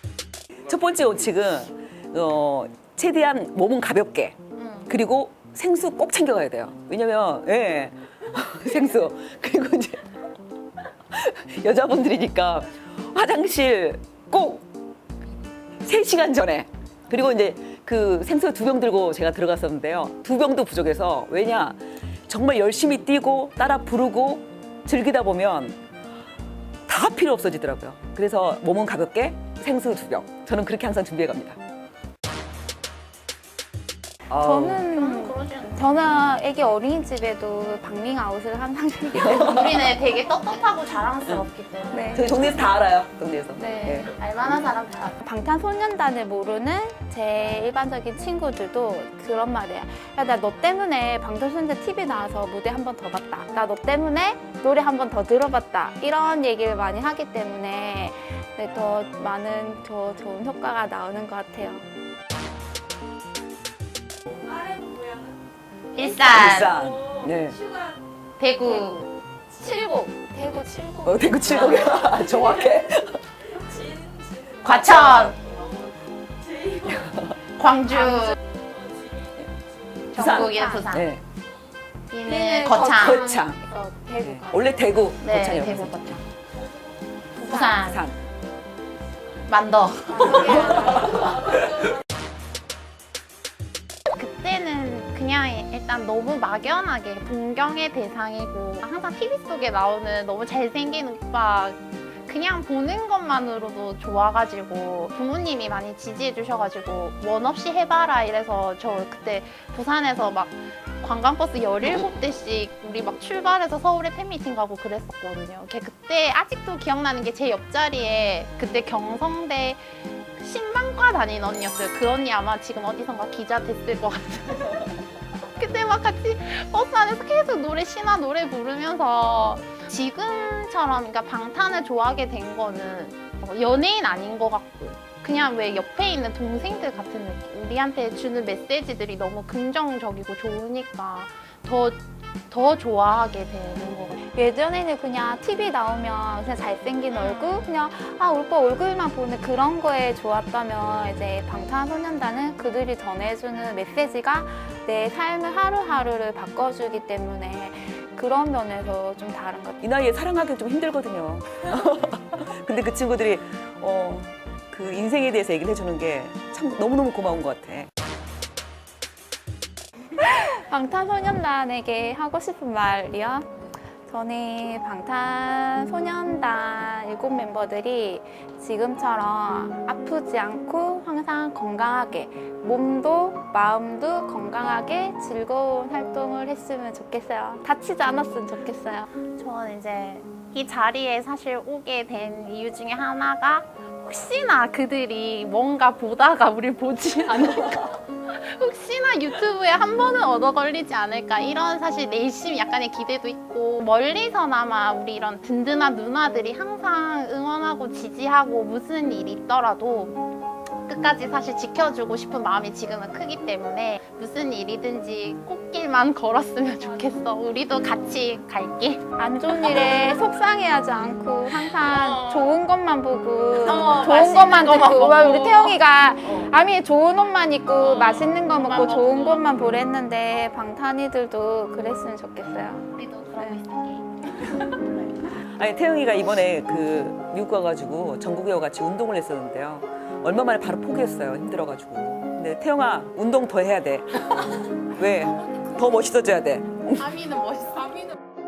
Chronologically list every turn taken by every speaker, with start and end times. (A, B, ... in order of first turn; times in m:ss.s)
0:00.7-0:04.4 A
0:04.6-0:04.9 B
0:04.9-0:10.1 A
0:11.1-0:14.7 A
0:15.8-0:25.8 A
0:26.9-0:31.6 A
0:34.3-0:34.8 A
0:34.4-0:39.8 C
0:34.9-0:35.7 B
0:39.2-0:39.9 A
0:39.4-0:42.6 B
0:41.9-0:42.3 C
0:42.2-0:44.1 A
0:43.6-0:44.1 C
0:44.1-0:45.2 B
0:45.2-1:01.8 C
1:06.0-1:06.8 B
1:06.3-1:07.6 A
1:08.4-1:09.0 B
1:08.7-1:09.0 C
1:09.6-1:12.1 C
1:11.0-1:13.2 A
1:14.5-1:15.4 B
1:16.6-1:17.3 A
1:17.6-1:18.4 B
1:20.1-1:21.1 B
1:20.2-1:21.2 A
1:20.2-1:20.9 C
1:22.1-1:23.3 B
1:22.3-1:24.8 C
1:22.9-1:23.6 A
1:24.2-1:26.2 A
1:25.2-1:26.2 B
1:27.4-1:28.0 B
1:27.5-1:27.9 C
1:27.8-1:28.2 A
1:29.4-1:31.6 B
1:30.2-1:31.1 C
1:34.1-1:59.8 B
2:00.4-2:04.9 B
2:05.5-2:24.2 B
2:24.3-2:39.8 C
2:27.1-2:27.7 B
2:39.8-2:47.9 A
2:50.2-3:09.1 C
3:09.4-3:30.2 B
3:30.9-3:40.0 B
3:39.2-3:52.9 C
3:41.7-3:42.5 B
3:43.6-3:46.5 B
3:47.8-3:49.4 B
3:52.9-3:54.9 B
3:55.5-4:04.2 A
4:04.9-4:07.2 A
4:07.0-4:08.2 B